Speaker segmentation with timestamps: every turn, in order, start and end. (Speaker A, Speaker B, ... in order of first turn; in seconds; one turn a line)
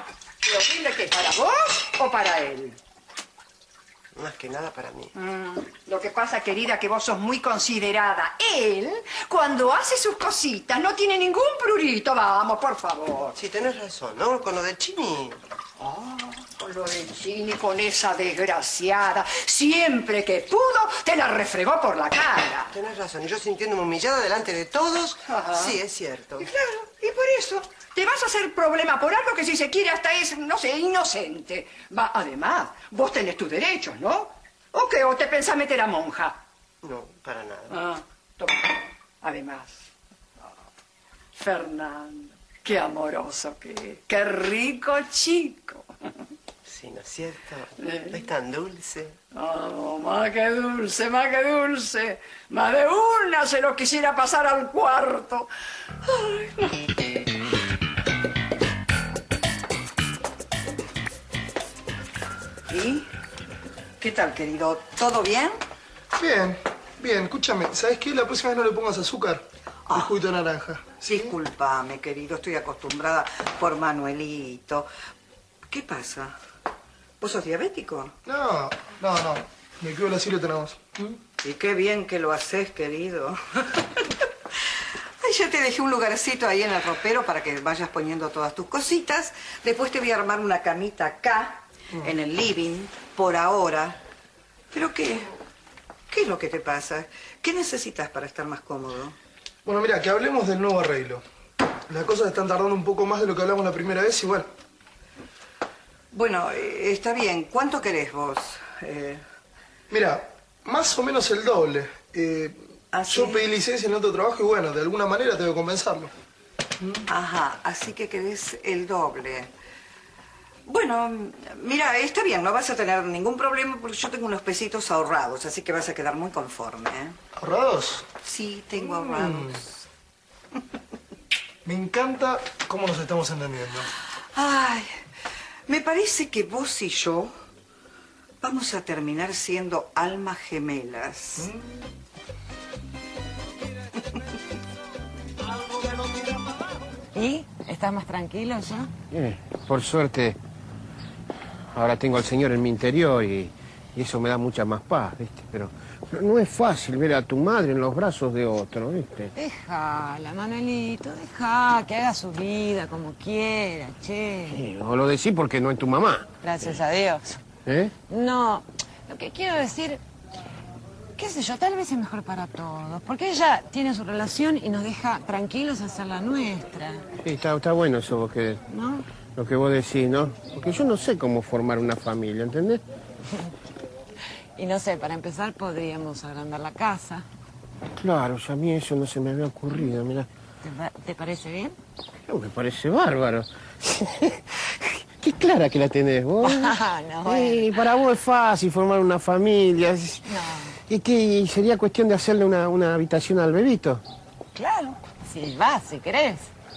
Speaker A: 0.4-2.8
Speaker B: 4.2-5.1
Speaker A: 5.2-13.3
Speaker B: 13.4-15.3
Speaker A: 15.8-22.7
Speaker B: 22.8-26.4
Speaker A: 26.6-36.4
Speaker B: 36.8-37.7
Speaker A: 37.7-39.9
Speaker A: 41.4-45.9
Speaker B: 46.7-47.3
Speaker A: 47.8-48.2
Speaker B: 48.1-49.1
Speaker A: 49.3-55.5
Speaker A: 56.1-56.8
Speaker C: 62.7-63.1
Speaker C: 64.0-65.6
Speaker D: 66.2-69.4
Speaker D: 69.9-71.3
Speaker C: 71.0-74.9
Speaker C: 75.7-76.3
Speaker C: 77.2-78.1
Speaker D: 78.2-81.2
Speaker C: 81.4-83.8
Speaker C: 85.2-94.0
Speaker C: 94.7-95.3
Speaker C: 96.1-99.2
Speaker D: 99.6-101.2
Speaker D: 101.9-104.5
Speaker C: 106.1-109.2
Speaker D: 109.9-116.1
Speaker C: 112.9-113.4
Speaker C: 117.0-119.5
Speaker C: 120.7-127.2
Speaker D: 127.4-128.1
Speaker C: 128.2-129.8
Speaker D: 128.8-129.6
Speaker D: 131.6-133.9
Speaker C: 134.3-134.9
Speaker C: 135.7-137.3
Speaker C: 138.4-141.4
Speaker D: 141.4-141.8
Speaker E: 147.1-148.9
Speaker F: 149.1-150.4
Speaker F: 151.7-159.3
Speaker E: 159.3-164.6
Speaker F: 164.7-166.3
Speaker E: 166.4-167.4
Speaker F: 167.7-167.9
Speaker E: 168.0-170.0
Speaker E: 171.2-177.0
Speaker F: 177.2-178.6
Speaker E: 178.7-179.0
Speaker F: 179.3-182.8
Speaker E: 184.6-187.2
Speaker F: 188.0-190.2
Speaker E: 190.6-191.8
Speaker F: 192.3-194.0
Speaker F: 195.2-196.7
Speaker E: 196.4-197.9
Speaker F: 197.3-200.2
Speaker E: 200.2-200.7
Speaker F: 200.9-204.0
Speaker E: 204.5-206.5